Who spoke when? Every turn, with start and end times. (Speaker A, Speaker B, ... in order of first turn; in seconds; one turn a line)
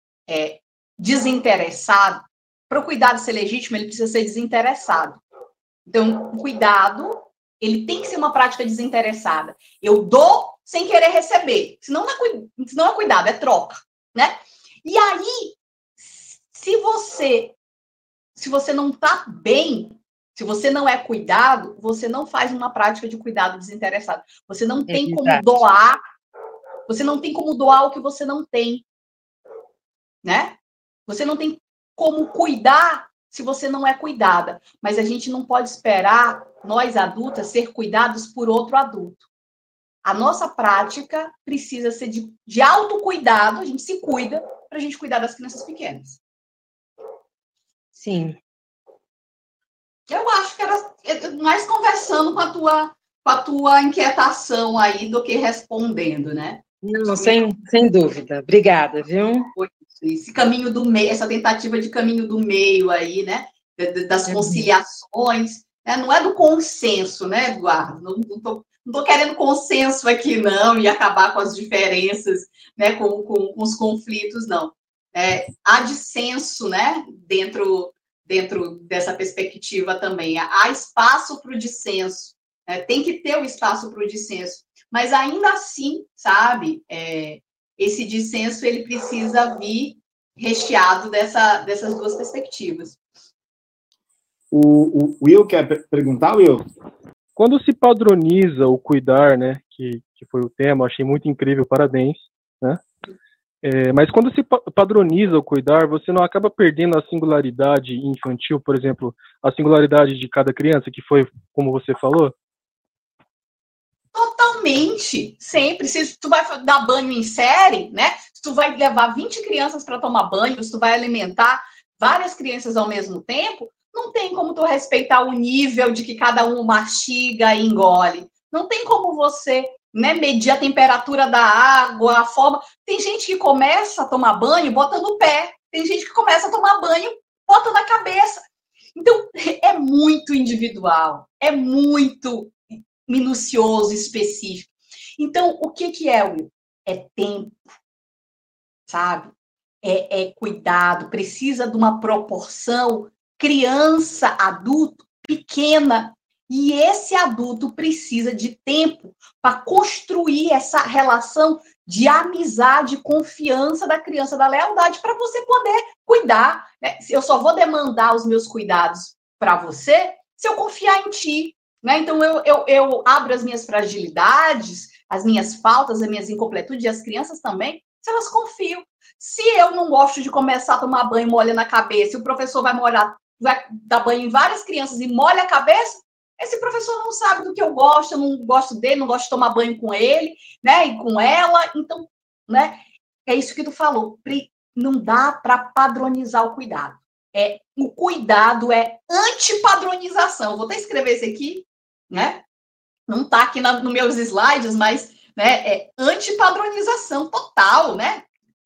Speaker A: 0.3-5.2
Speaker A: 5.8-17.5
Speaker A: 18.4-26.0
Speaker B: 24.9-25.4
Speaker A: 26.9-28.8
Speaker A: 30.2-39.2
Speaker A: 40.0-46.2
Speaker B: 48.0-48.4
Speaker A: 50.1-56.6
Speaker B: 56.8-59.5
Speaker A: 57.1-57.4
Speaker A: 59.5-93.0
Speaker B: 64.3-64.7
Speaker C: 94.5-96.6
Speaker D: 97.3-102.8
Speaker D: 103.6-112.3
Speaker A: 114.1-138.4
Speaker A: 138.9-147.7
Speaker A: 148.9-202.4
Speaker A: 203.1-208.2